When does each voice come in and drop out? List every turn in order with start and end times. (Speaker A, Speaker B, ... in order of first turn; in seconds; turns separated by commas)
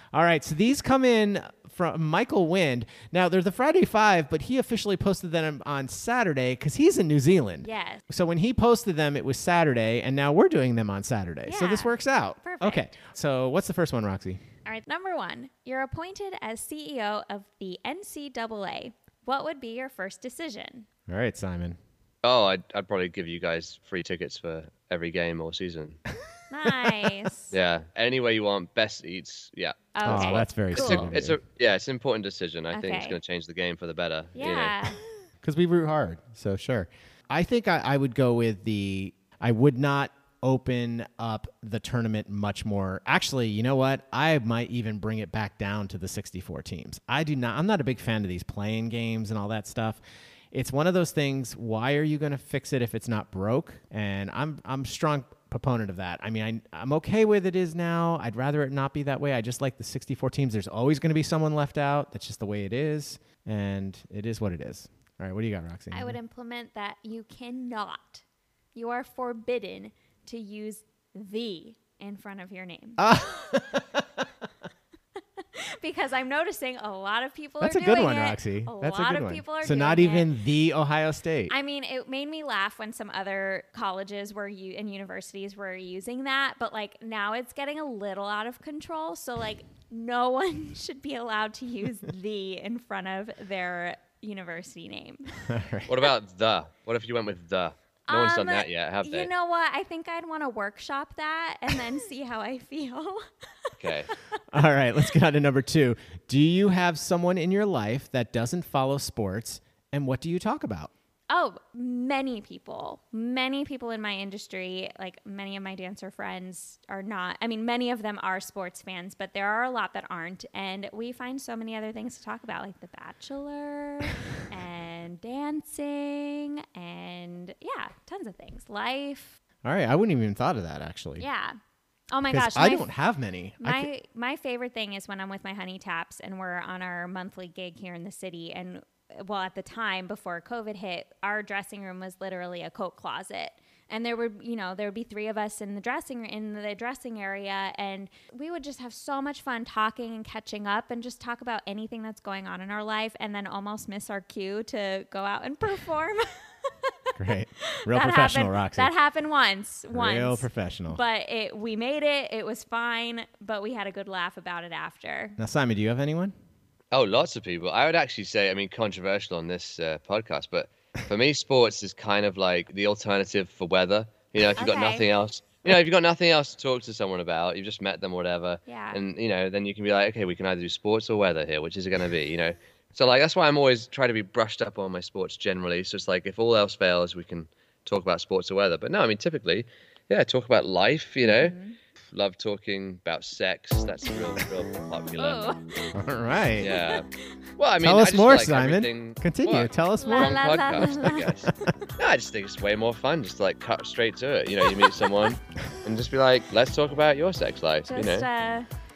Speaker A: 0.1-14.4, Speaker B: 7.6-8.0, Speaker B: 11.5-12.9, Speaker B: 14.7-20.9, Speaker A: 21.1-21.8, Speaker C: 22.2-26.0, Speaker B: 26.5-27.6, Speaker A: 26.7-27.1, Speaker C: 27.5-34.9, Speaker B: 29.9-31.1, Speaker A: 30.0-31.4, Speaker B: 32.7-33.2, Speaker B: 34.4-35.0, Speaker A: 35.4-50.0, Speaker A: 50.5-66.2, Speaker B: 65.9-68.2, Speaker B: 68.8-73.1, Speaker A: 73.0-74.0, Speaker B: 75.5-80.3, Speaker A: 77.6-81.5, Speaker B: 81.5-95.3, Speaker A: 95.5-96.0, Speaker C: 95.9-99.3, Speaker B: 98.1-103.7, Speaker C: 103.8-104.1, Speaker A: 104.5-110.9, Speaker B: 111.3-129.4, Speaker A: 129.6-131.3, Speaker B: 131.2-131.6, Speaker B: 132.1-132.9, Speaker A: 132.3-133.9, Speaker B: 133.6-156.9, Speaker A: 157.2-158.9, Speaker B: 157.7-165.4, Speaker A: 159.9-161.0, Speaker A: 165.4-166.3, Speaker C: 166.9-191.6, Speaker B: 174.6-175.1, Speaker B: 178.7-179.0, Speaker B: 191.2-191.8, Speaker C: 192.1-195.5, Speaker B: 195.2-195.9, Speaker A: 195.9-196.7, Speaker C: 196.6-197.1, Speaker C: 197.6-208.3, Speaker A: 197.8-200.9, Speaker B: 200.0-201.3, Speaker B: 207.9-208.7